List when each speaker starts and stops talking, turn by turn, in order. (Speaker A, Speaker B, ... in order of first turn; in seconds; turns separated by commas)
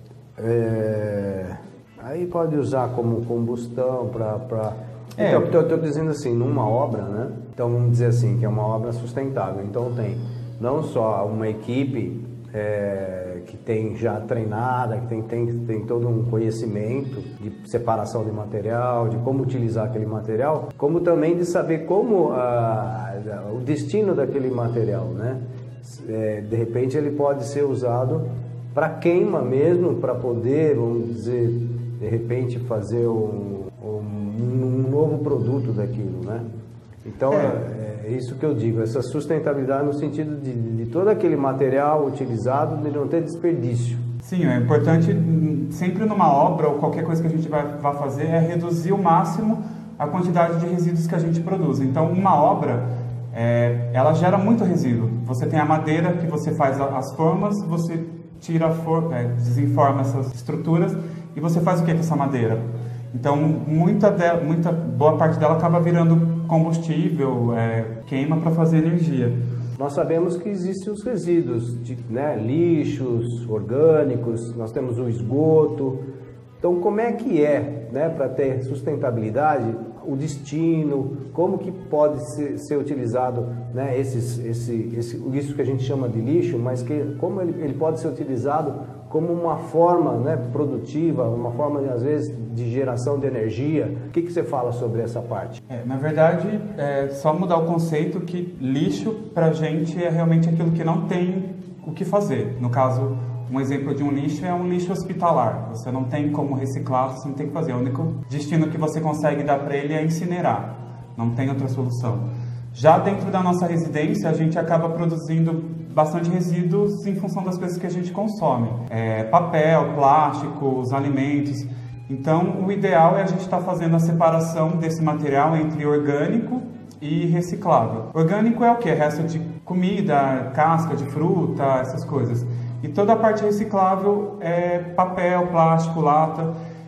Speaker A: 0.4-36.5, Speaker B: 5.2-5.5, Speaker A: 37.0-44.0, Speaker B: 37.3-37.6, Speaker B: 44.2-69.4, Speaker A: 69.8-76.0, Speaker A: 76.6-95.6, Speaker B: 95.7-136.5